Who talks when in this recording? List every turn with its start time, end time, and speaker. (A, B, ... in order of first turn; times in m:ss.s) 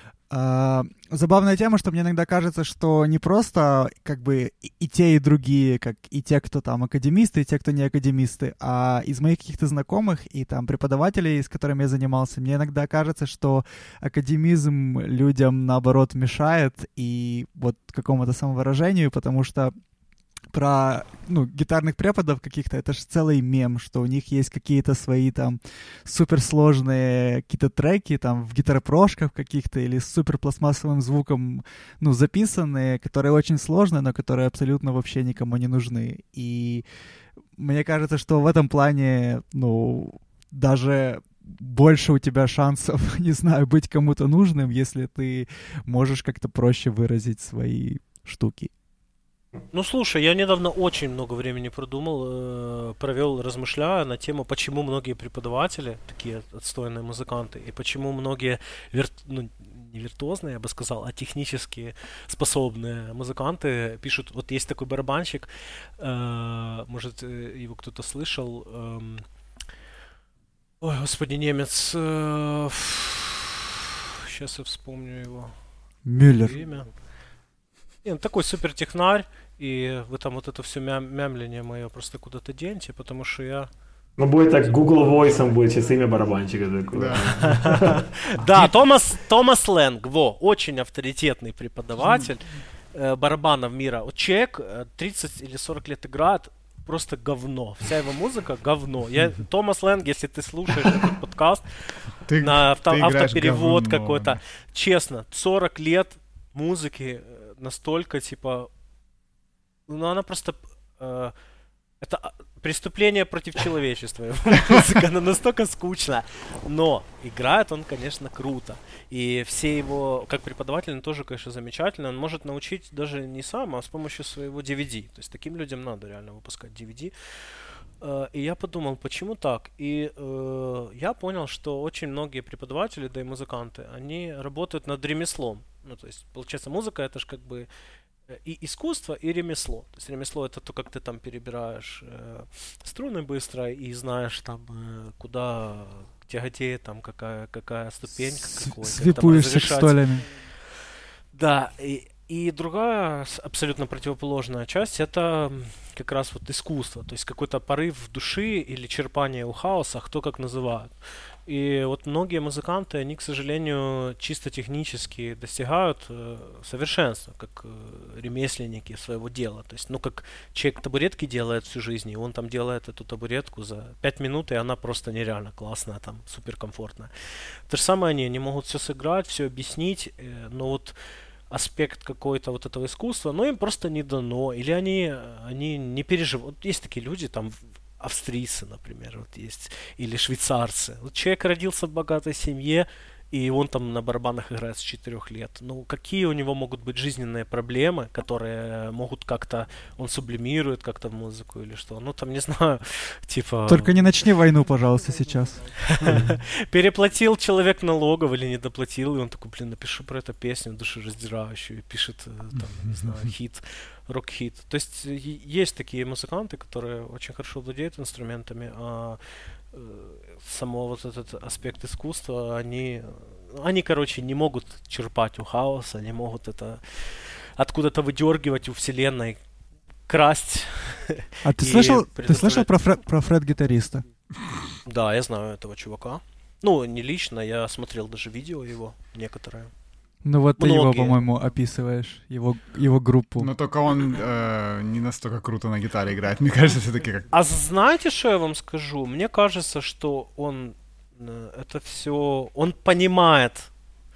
0:00.3-0:19.7 A
0:20.5-0:36.8 A
0:37.6-0:48.7 A
0:49.7-1:09.2 B
1:10.8-1:15.6 B
1:16.0-1:16.6 A
1:16.3-1:16.9 B
1:18.0-1:23.7 B
1:24.2-1:28.1 C
1:26.9-1:27.7 D
1:27.4-1:48.7 B
1:42.2-1:44.4 D
1:49.9-1:51.3 B
1:52.0-2:07.1 B
2:08.0-2:17.7 B
2:18.3-2:30.0 B
2:28.3-2:30.2 A
2:31.3-2:40.9 B
2:41.5-2:57.1 B
2:57.7-3:01.0 B
3:01.5-3:24.1 B
3:23.7-3:25.6 A
3:25.8-3:39.2 B
3:26.0-3:26.4 C
3:39.7-3:49.4 B
3:50.1-3:52.7 B
3:51.4-3:54.0 A
3:54.9-3:59.7 B
4:00.2-4:03.5 A
4:00.6-4:01.2 B
4:03.4-4:07.3 D
4:07.3-4:13.7 B